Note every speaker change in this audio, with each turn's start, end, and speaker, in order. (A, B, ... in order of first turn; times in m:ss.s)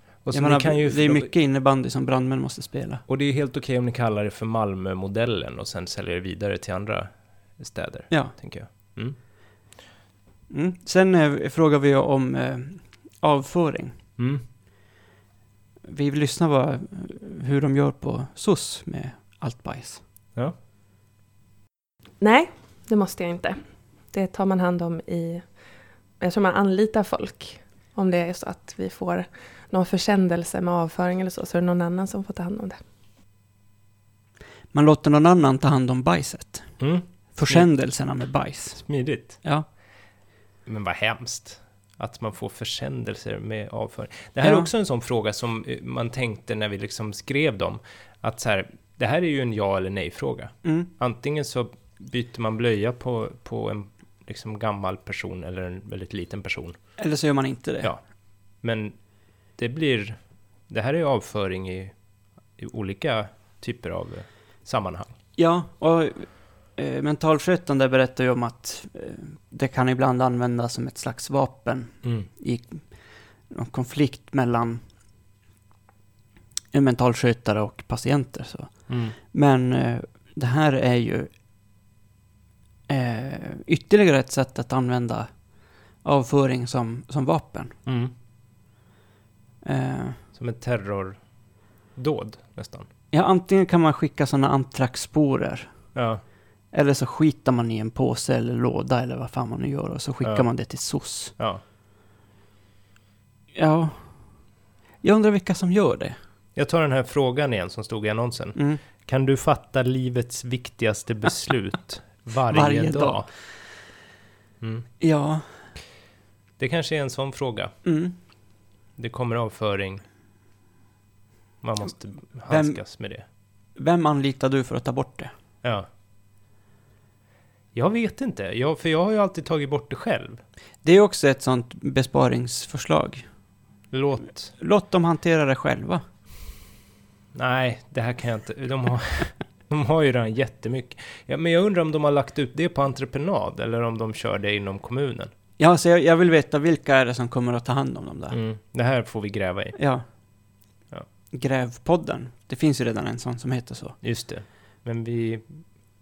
0:00.2-0:01.3 A
0:00.3-0:03.0 B
0:03.1-0:09.2 A
0:08.1-0:08.3 B
0:10.5-0:14.0 B
0:14.2-0:14.4 A
0:15.9-0:20.0 B
0:22.2-0:23.6 C
0:24.1-0:25.5 C
0:26.2-0:32.8 C
0:34.7-0:36.8 B
0:36.8-0:37.7 A
0:37.3-0:39.6 B
0:38.8-0:39.4 A
0:40.6-0:56.8 A
0:44.4-0:44.7 B
0:50.6-0:50.9 B
0:57.0-0:57.9 B
0:58.6-0:59.0 A
0:59.6-1:00.2 A
1:00.7-1:01.9 A
1:02.6-1:05.1 A
1:05.4-1:12.9 B
1:12.0-1:12.3 A
1:13.5-1:14.8 B
1:16.7-1:21.3 B
1:18.9-1:19.2 A
1:22.9-1:25.3 B
1:26.0-1:27.8 B
1:27.8-1:28.1 A
1:29.6-1:30.2 B
1:30.3-1:31.2 A
1:31.9-1:32.9 A
1:33.1-1:35.7 B
1:35.9-1:36.2 A
1:36.7-1:41.3 B
1:40.2-1:40.5 A
1:41.4-1:41.6 A
1:43.5-1:44.1 B
1:45.0-1:46.2 B
1:46.6-1:53.3 A
1:48.5-1:48.8 B
1:52.5-1:53.4 B
1:54.6-1:54.9 A
1:55.0-1:55.7 B
1:56.6-1:57.7 A
1:57.8-1:58.2 B
1:59.0-2:00.0 A
2:01.6-2:03.2 A
2:02.5-2:02.8 B
2:03.8-2:05.3 B
2:05.6-2:05.9 A
2:07.7-2:10.4 A
2:10.8-2:13.2 B
2:13.9-2:14.5 A
2:14.5-2:16.0 B
2:17.3-2:25.3 A
2:25.6-2:28.4 B
2:28.3-2:29.8 A
2:29.8-2:30.0 B
2:31.3-2:34.0 B
2:34.0-2:35.6 A